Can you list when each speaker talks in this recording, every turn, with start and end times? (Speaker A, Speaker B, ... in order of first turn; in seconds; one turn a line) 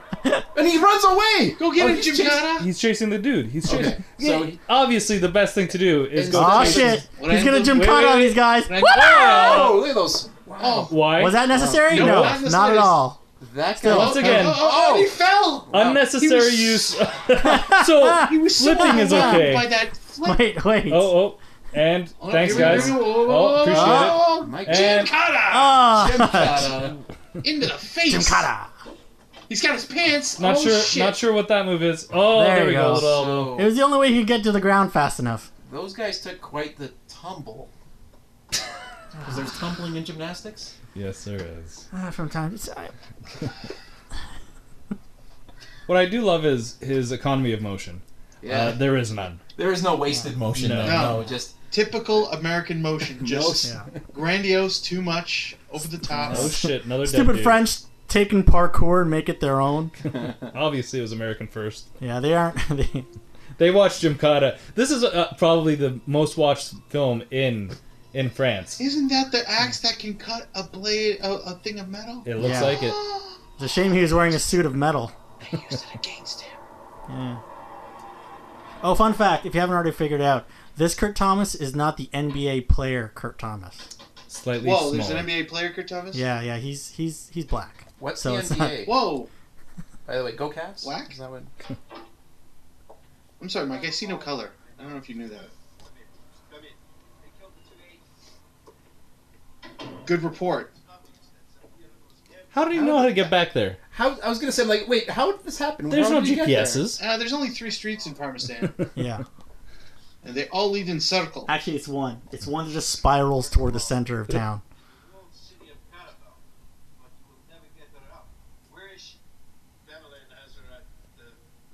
Speaker A: 0.5-2.5
Speaker B: 1.6-2.7
Speaker C: 2.5-7.0
Speaker A: 3.6-4.6
Speaker A: 6.1-7.1
Speaker D: 6.3-9.0
Speaker B: 7.1-9.9
Speaker C: 7.7-9.8
Speaker A: 9.0-10.9
Speaker B: 10.6-11.0
Speaker C: 10.9-12.4
Speaker D: 11.1-13.2
Speaker A: 11.5-11.9
Speaker B: 11.8-13.0
Speaker A: 13.4-16.0
Speaker D: 13.8-14.2
Speaker B: 13.8-16.9
Speaker C: 13.9-14.7
Speaker C: 15.7-19.7
Speaker D: 17.4-19.6
Speaker B: 18.1-20.5
Speaker D: 20.2-21.1
Speaker C: 20.9-25.1
Speaker B: 22.2-25.9
Speaker A: 22.4-23.1
Speaker D: 23.7-24.2
Speaker A: 24.3-25.1
Speaker D: 25.5-26.7
Speaker A: 25.9-27.0
Speaker B: 27.4-28.5
Speaker D: 28.1-28.7
Speaker B: 29.5-31.2
Speaker C: 30.4-33.5
Speaker D: 32.3-35.5
Speaker A: 32.9-33.8
Speaker A: 35.6-37.7
Speaker A: 39.2-40.7
Speaker C: 40.9-41.8
Speaker D: 41.9-42.9
Speaker C: 45.9-49.4
Speaker A: 48.4-48.9
Speaker A: 49.5-51.6
Speaker C: 50.5-51.3
Speaker B: 50.8-56.5
Speaker A: 53.1-53.9
Speaker D: 53.6-53.9
Speaker A: 56.1-56.5
Speaker C: 56.2-57.6
Speaker D: 56.3-59.9
Speaker A: 60.1-60.5
Speaker C: 60.5-61.9
Speaker D: 62.0-63.1
Speaker C: 63.6-68.8
Speaker B: 68.8-73.4
Speaker C: 72.2-73.0
Speaker D: 72.4-72.8
Speaker D: 73.6-75.1
Speaker B: 75.4-76.6
Speaker D: 77.1-77.4
Speaker D: 78.8-83.9
Speaker C: 84.3-85.3
Speaker B: 84.6-86.2
Speaker D: 86.1-88.8
Speaker A: 88.0-89.0
Speaker B: 88.8-89.3
Speaker A: 90.0-91.5
Speaker B: 90.8-91.1
Speaker B: 93.4-95.5
Speaker E: 93.5-98.1
Speaker B: 100.0-100.7
Speaker E: 100.8-102.8
Speaker C: 102.5-103.8
Speaker A: 102.7-103.3
Speaker A: 103.9-107.0
Speaker C: 105.9-107.0
Speaker B: 107.0-108.8
Speaker E: 107.2-108.3
Speaker D: 109.0-109.2
Speaker B: 110.2-111.5
Speaker D: 111.5-114.6
Speaker E: 113.3-114.0
Speaker E: 114.8-119.2
Speaker E: 119.8-121.4